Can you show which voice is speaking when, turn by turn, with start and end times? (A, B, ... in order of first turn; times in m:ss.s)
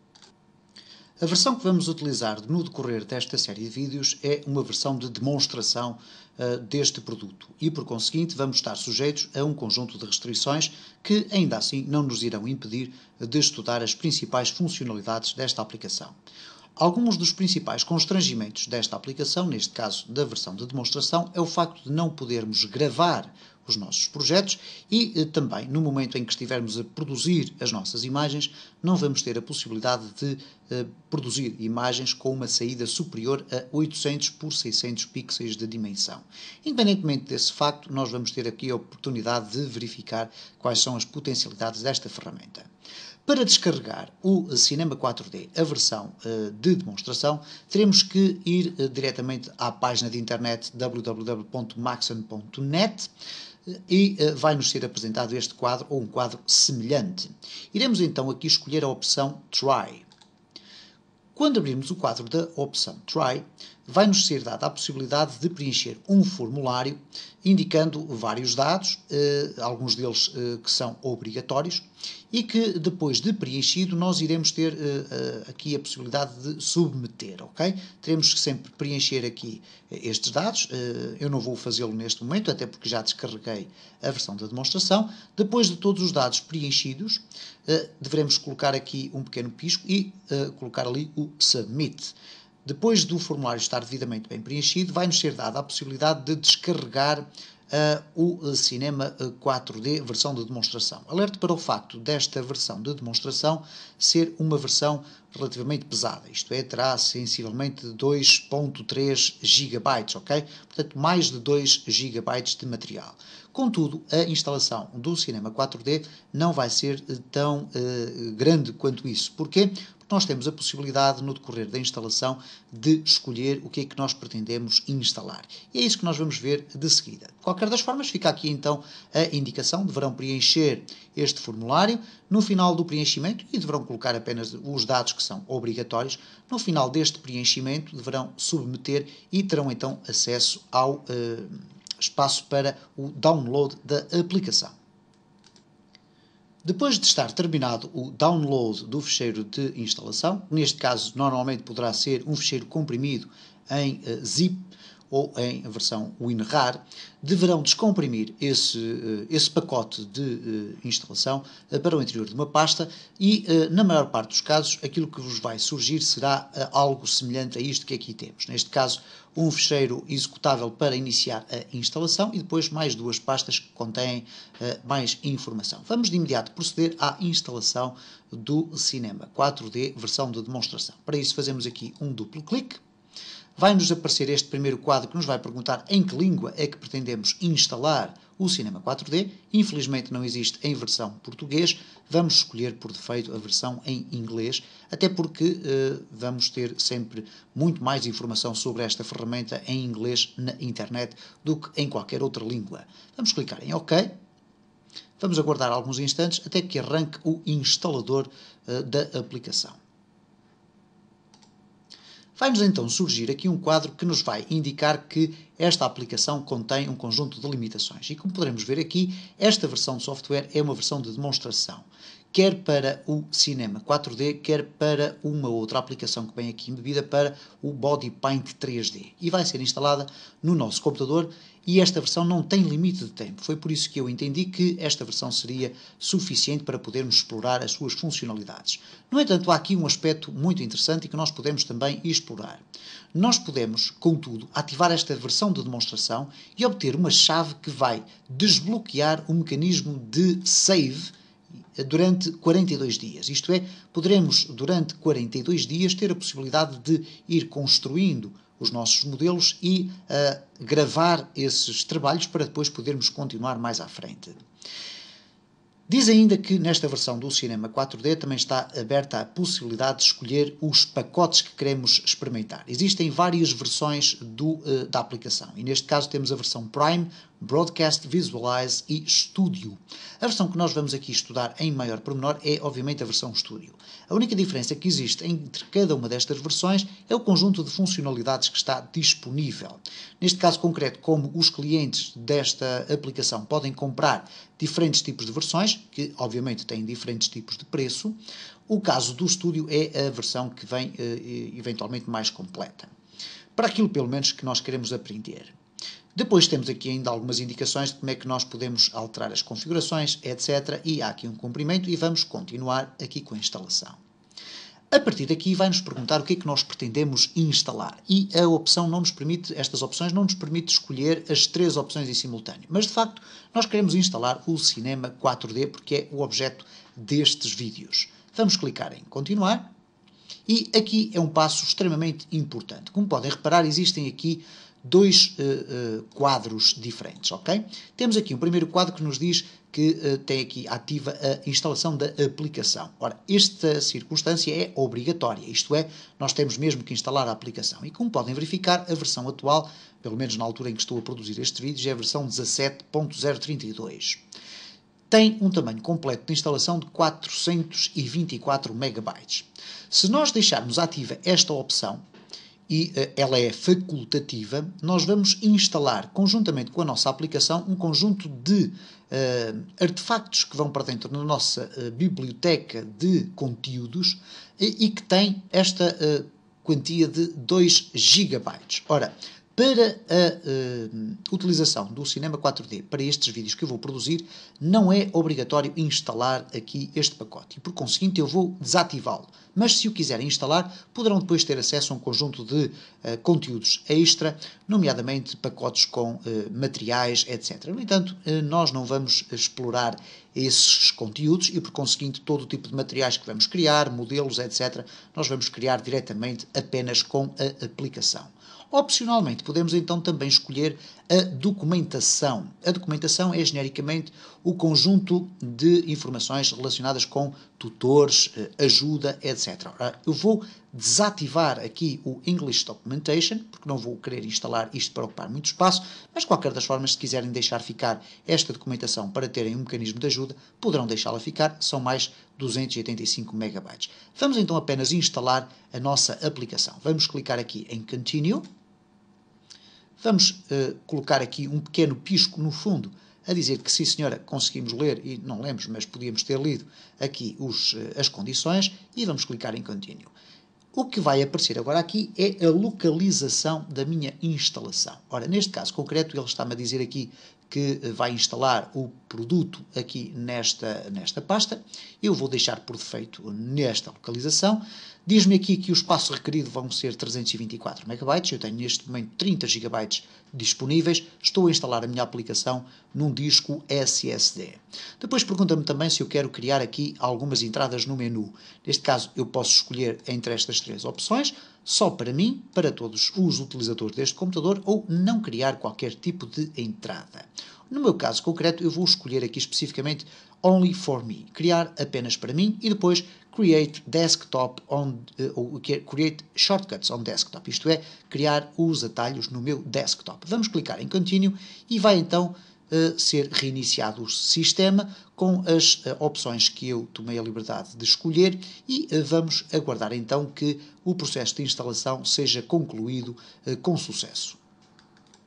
0:01.2-0:16.1 A
0:16.8-0:42.7 A
0:43.2-0:53.1 A
0:53.7-1:00.0 A
1:01.3-1:32.1 A
1:32.6-2:24.7 A
2:26.6-3:02.8 A
3:03.6-3:24.2 A
3:25.2-3:29.8 A
3:32.4-4:02.6 A
4:03.1-4:11.1 A
4:11.8-4:24.4 A
4:25.9-4:58.2 A
4:58.7-5:02.9 A
5:03.6-5:05.5 A
5:06.1-5:14.0 A
5:14.9-5:29.7 A
5:30.5-5:54.2 A
5:55.1-6:02.0 A
6:02.7-7:18.4 A
7:20.0-7:30.1 A
7:30.7-8:34.4 A